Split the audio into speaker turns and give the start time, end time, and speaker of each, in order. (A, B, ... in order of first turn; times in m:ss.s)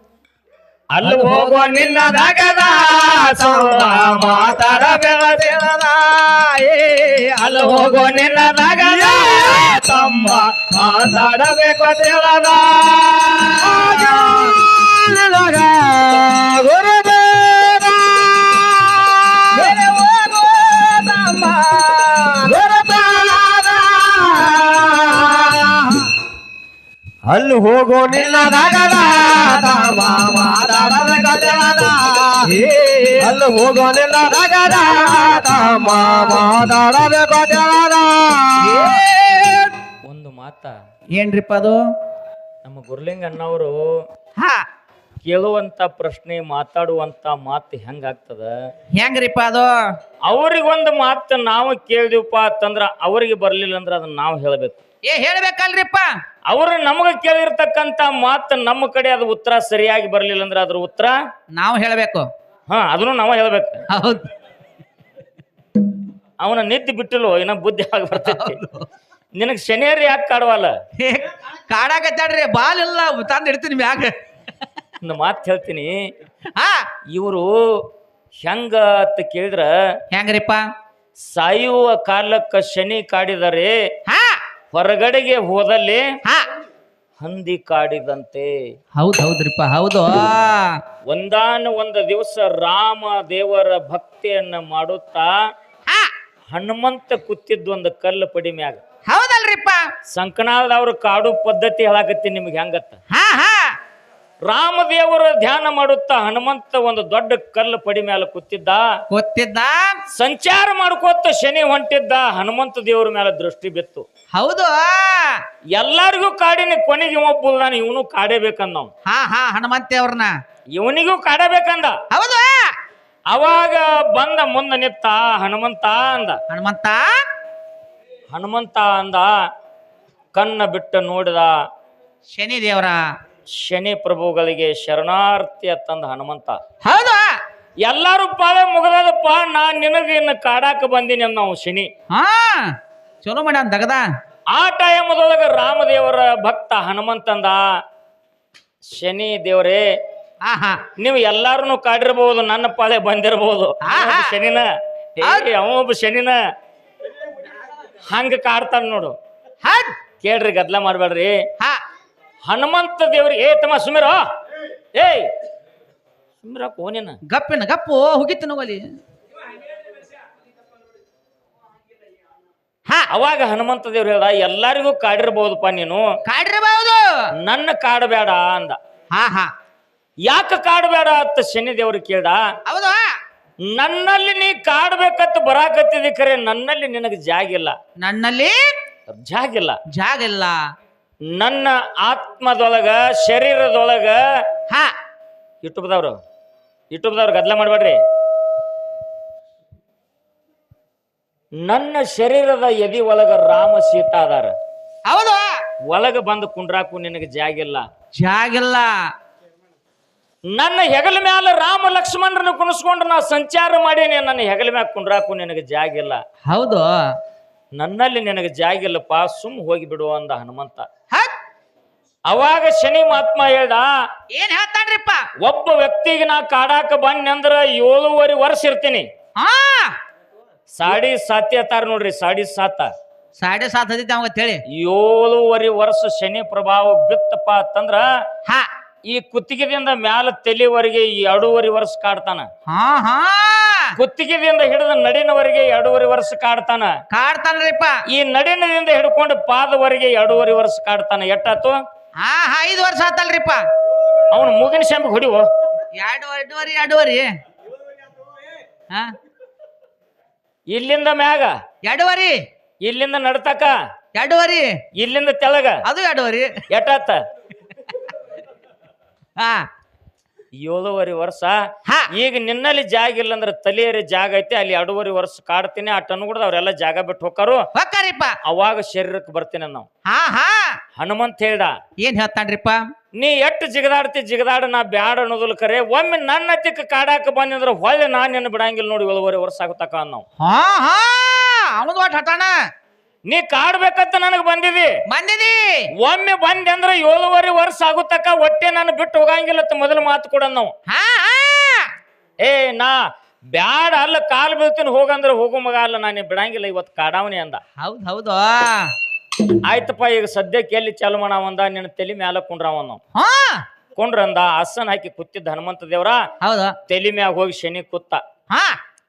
0:00.9-0:05.5 A
0:01.2-0:01.4 B
0:03.6-0:04.1 B
0:04.9-0:07.9 B
0:07.4-0:14.4 A
0:08.8-0:09.8 C
0:13.6-0:19.8 C
0:19.5-0:23.0 B
0:22.5-0:26.0 C
0:27.3-0:32.5 C
0:32.4-0:33.3 B
0:33.2-0:39.0 C
0:34.9-0:36.4 B
0:38.6-0:39.7 B
0:40.0-0:40.7 A
0:41.1-0:41.8 B
0:42.6-0:43.8 A
0:44.4-0:44.7 B
0:45.2-0:48.5 A
0:49.0-0:49.9 B
0:50.2-0:54.8 A
0:55.0-0:56.1 B
0:56.5-1:01.2 A
1:01.5-1:02.3 B
1:02.7-1:03.8 A
1:03.9-1:04.3 B
1:06.4-1:08.6 A
1:08.2-1:08.9 B
1:09.4-1:10.7 A
1:11.0-1:14.2 B
1:15.0-1:15.9 A
1:16.6-1:16.9 B
1:17.1-1:17.8 A
1:18.4-1:19.7 A
1:20.1-1:20.7 B
1:21.3-1:23.8 A
1:24.1-1:24.4 B
1:24.7-1:26.1 A
1:27.2-1:28.5 A
1:29.0-1:30.8 B
1:31.1-1:35.3 A
1:36.5-1:38.8 A
1:39.1-1:39.9 B
1:40.1-1:43.0 A
1:43.1-1:43.8 B
1:44.4-1:48.8 A
1:49.1-1:50.0 B
1:50.1-1:54.0 A
1:54.4-1:55.4 B
1:55.7-1:58.9 A
1:59.1-2:00.3 B
2:00.8-2:02.0 A
2:02.1-2:02.7 B
2:03.3-2:06.4 A
2:06.5-2:07.2 B
2:08.3-2:09.3 A
2:10.4-2:11.5 A
2:12.3-2:13.0 B
2:13.5-2:16.6 A
2:16.8-2:17.4 B
2:17.8-2:21.9 A
2:22.1-2:24.0 B
2:24.5-2:27.6 A
2:28.9-2:29.8 A
2:30.4-2:30.8 B
2:31.0-2:34.6 A
2:33.8-2:34.3 B
2:35.2-2:36.4 A
2:35.2-2:35.5 B
2:38.1-2:39.1 A
2:39.6-2:39.9 B
2:40.2-2:41.4 A
2:42.4-2:44.2 A
2:44.9-2:45.3 A
2:46.4-2:47.2 A
2:47.3-2:49.0 B
2:53.1-2:56.0 A
2:56.3-2:57.3 B
2:57.4-2:58.8 A
2:59.1-2:59.5 B
3:00.2-3:02.4 A
3:02.7-3:03.1 B
3:03.6-3:07.8 A
3:08.0-3:08.7 B
3:09.1-3:09.8 A
3:09.9-3:10.6 B
3:11.3-3:14.2 A
3:15.6-3:16.2 A
3:16.9-3:18.0 A
3:21.6-3:24.5 A
3:25.1-3:25.6 B
3:25.9-3:27.8 A
3:28.2-3:28.9 B
3:30.5-3:36.2 A
3:36.5-3:36.9 B
3:37.8-3:40.9 A
3:42.3-3:43.9 A
3:44.3-3:45.3 B
3:45.4-3:49.1 A
3:49.4-3:50.0 B
3:50.7-3:52.9 A
3:53.4-3:54.6 B
3:54.7-3:58.1 A
3:59.1-4:02.5 A
4:02.7-4:04.0 B
4:04.0-4:06.9 A
4:07.1-4:08.0 B
4:08.1-4:11.8 A
4:12.2-4:13.6 B
4:14.3-4:15.4 A
4:16.0-4:17.4 B
4:20.7-4:21.5 A
4:21.8-4:22.4 B
4:22.8-4:23.8 A
4:24.1-4:24.8 B
4:25.0-4:25.8 A
4:25.8-4:26.6 B
4:26.7-4:27.2 A
4:29.4-4:29.7 B
4:30.6-4:31.6 A
4:32.1-4:37.6 A
4:37.7-4:38.4 B
4:38.4-4:39.9 A
4:40.0-4:40.8 B
4:41.0-4:41.7 A
4:42.0-4:42.9 B
4:43.2-4:50.2 A
4:50.4-4:52.5 B
4:53.3-4:54.9 A
4:55.1-4:55.9 B
4:56.0-5:00.7 A
5:00.9-5:01.9 B
5:02.4-5:03.0 A
5:03.5-5:07.6 A
5:07.8-5:08.9 B
5:09.6-5:13.0 A
5:13.2-5:13.6 B
5:14.0-5:16.2 A
5:16.4-5:16.8 B
5:16.9-5:18.2 A
5:18.5-5:18.8 B